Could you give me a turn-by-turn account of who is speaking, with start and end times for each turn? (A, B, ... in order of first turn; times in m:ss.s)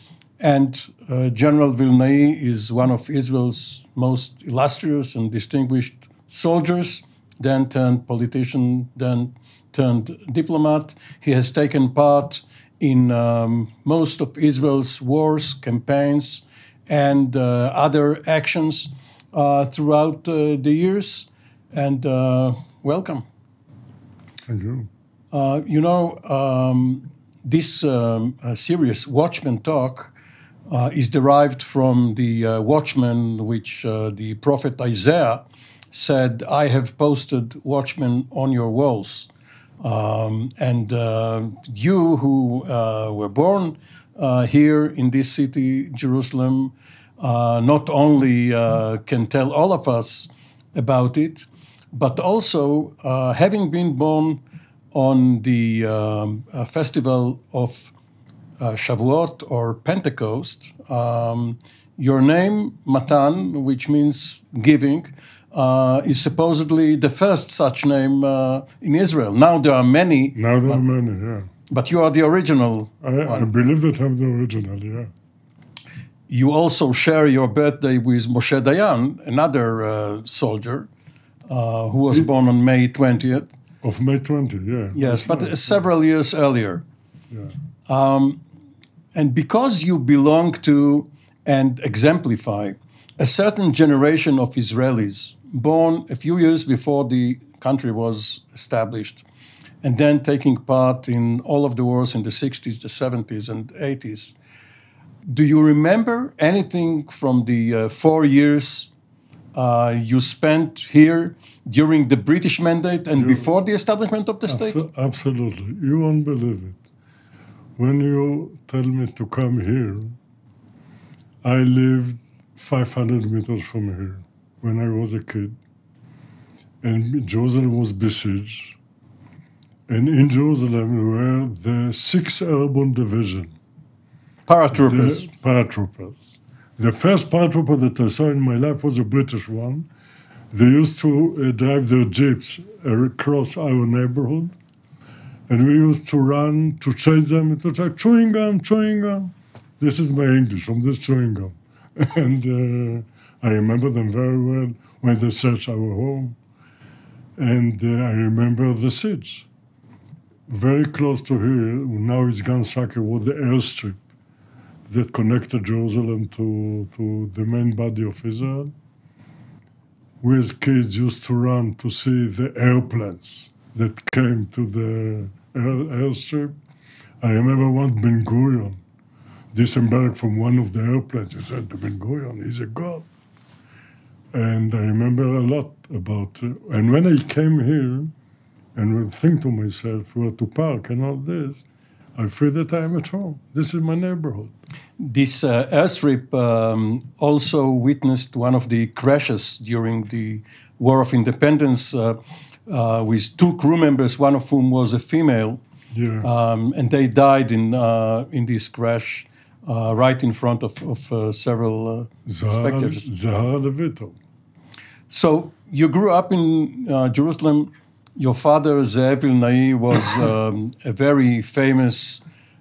0:00.4-0:23.2 A
0:24.5-0:24.9 B
0:25.3-0:30.1 A
0:30.7-0:39.3 A
0:39.8-0:54.4 A
0:54.9-0:57.9 A
0:58.6-1:10.8 A
1:10.3-1:11.5 B
1:11.7-1:13.5 A
1:13.0-1:15.1 B
1:16.3-1:20.9 A
1:21.5-1:23.5 A
1:23.8-1:25.8 B
1:24.9-1:26.8 A
1:27.9-1:28.4 A
1:29.1-1:39.2 A
1:39.8-1:44.4 A
1:45.3-1:48.9 A
1:49.5-1:54.8 A
1:53.2-1:53.5 B
1:54.5-1:56.8 B
1:57.8-2:00.1 B
2:01.4-2:05.6 B
2:06.8-2:08.8 B
2:09.9-2:13.5 B
2:14.4-2:15.3 A
2:14.7-2:19.9 B
2:20.5-2:24.5 B
2:25.5-2:36.4 B
2:37.4-2:39.5 B
2:40.5-2:44.0 B
2:44.9-2:48.7 B
2:50.2-2:56.5 B
2:57.2-2:58.8 B
2:59.5-3:03.0 B
3:04.3-3:08.1 B
3:08.7-3:11.6 B
3:12.2-3:14.5 B
3:15.0-3:25.6 A
3:25.9-3:26.3 B
3:26.2-3:33.1 A
3:32.2-3:34.2 B
3:35.1-3:42.2 A